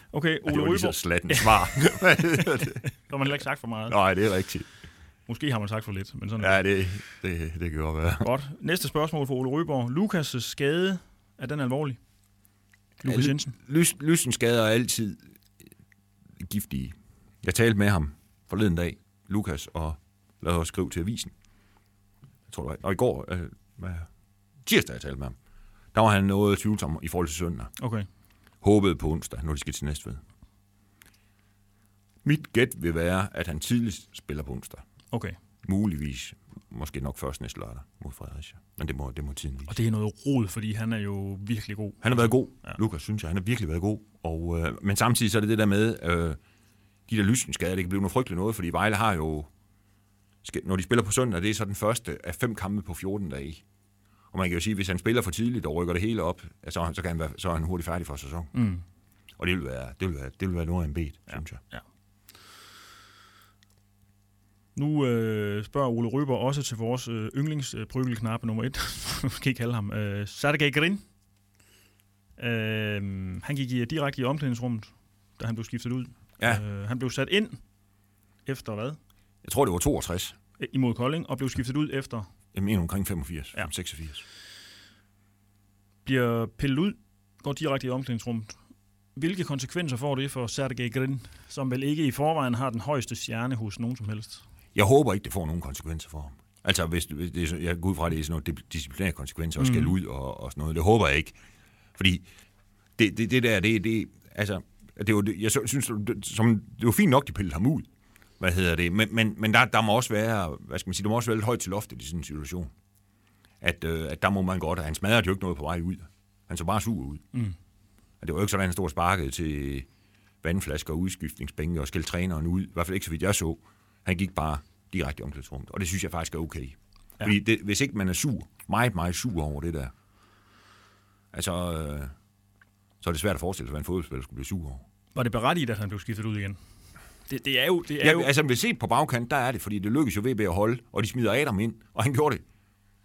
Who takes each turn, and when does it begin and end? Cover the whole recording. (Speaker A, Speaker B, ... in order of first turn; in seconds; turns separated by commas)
Speaker A: 0.1-1.5, Speaker B: 0.5-2.9, Speaker A: 2.6-4.0, Speaker B: 3.9-4.7, Speaker A: 5.3-6.7, Speaker B: 6.4-8.3, Speaker A: 8.2-12.0, Speaker A: 13.0-13.6, Speaker B: 13.1-15.3, Speaker B: 16.4-21.3, Speaker B: 22.5-24.1, Speaker B: 24.6-25.4, Speaker B: 25.9-27.7, Speaker A: 27.8-28.1, Speaker B: 28.6-30.2, Speaker B: 32.2-34.8, Speaker B: 35.6-39.8, Speaker A: 39.7-42.8, Speaker B: 42.0-46.4, Speaker B: 47.1-49.5, Speaker B: 50.4-53.6, Speaker B: 54.3-58.5, Speaker A: 58.5-58.8, Speaker B: 59.4-61.6, Speaker A: 61.3-61.8, Speaker A: 64.8-71.0, Speaker A: 72.4-77.6, Speaker A: 78.5-79.0, Speaker B: 79.4-80.4, Speaker A: 80.6-82.3, Speaker B: 82.5-84.2, Speaker A: 86.0-88.6, Speaker A: 89.2-94.4, Speaker B: 94.8-101.4, Speaker A: 99.6-99.9, Speaker B: 102.0-102.3, Speaker B: 103.0-107.9, Speaker B: 108.4-112.7, Speaker B: 113.6-117.2, Speaker B: 118.2-119.9, Speaker B: 120.4-129.9, Speaker B: 131.3-132.1, Speaker B: 133.0-134.8, Speaker A: 135.2-136.6, Speaker A: 137.3-138.3, Speaker B: 138.0-142.4